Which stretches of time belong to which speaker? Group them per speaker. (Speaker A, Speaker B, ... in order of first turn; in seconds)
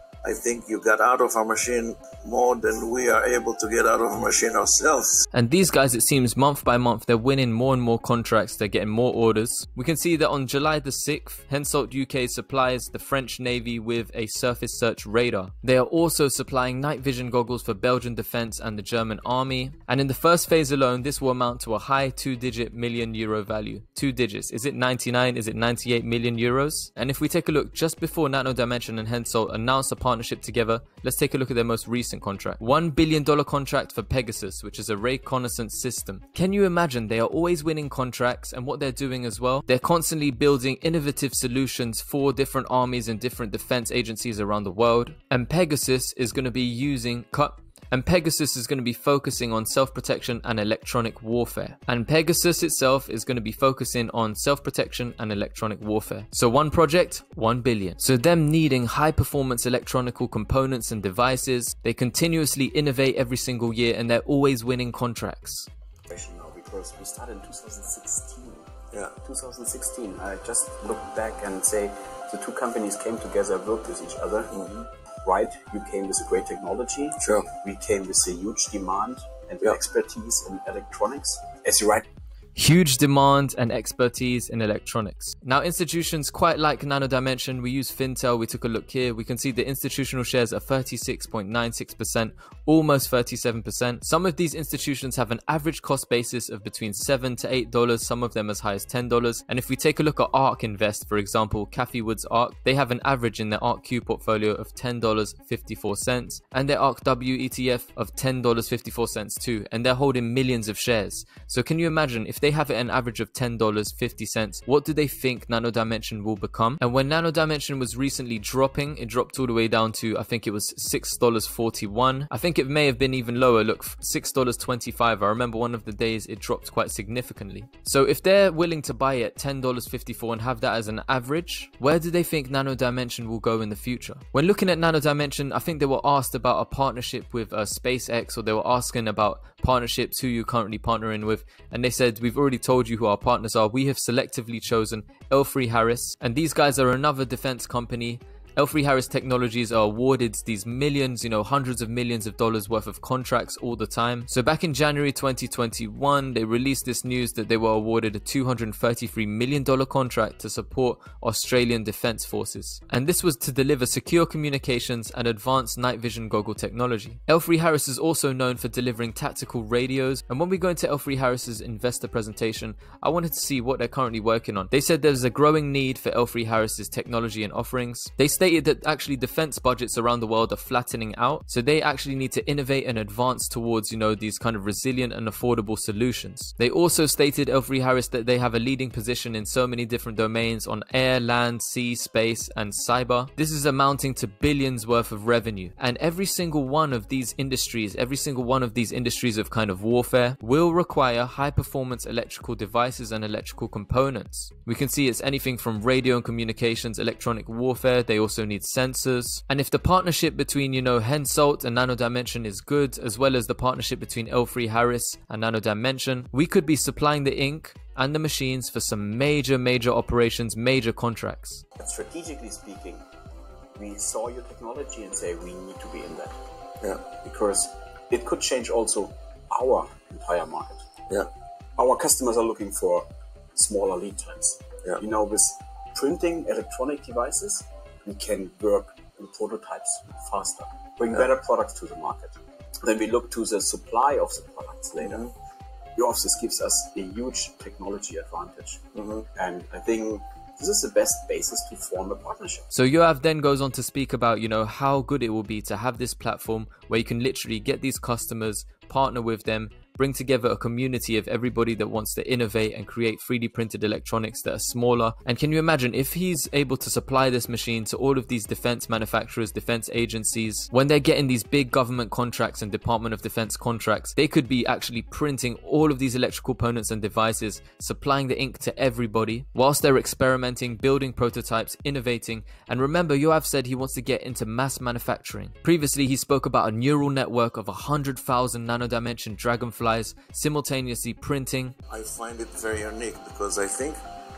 Speaker A: 0.2-5.2, 74.5-74.9, 77.2-77.5, 245.0-245.3, 248.9-249.2, 291.9-294.0
Speaker B: 5.3-65.7, 82.5-221.6, 252.7-291.7
Speaker C: 66.1-74.5, 75.2-82.1, 221.8-223.0, 223.8-226.4, 227.1-230.8, 231.8-245.3, 245.9-252.7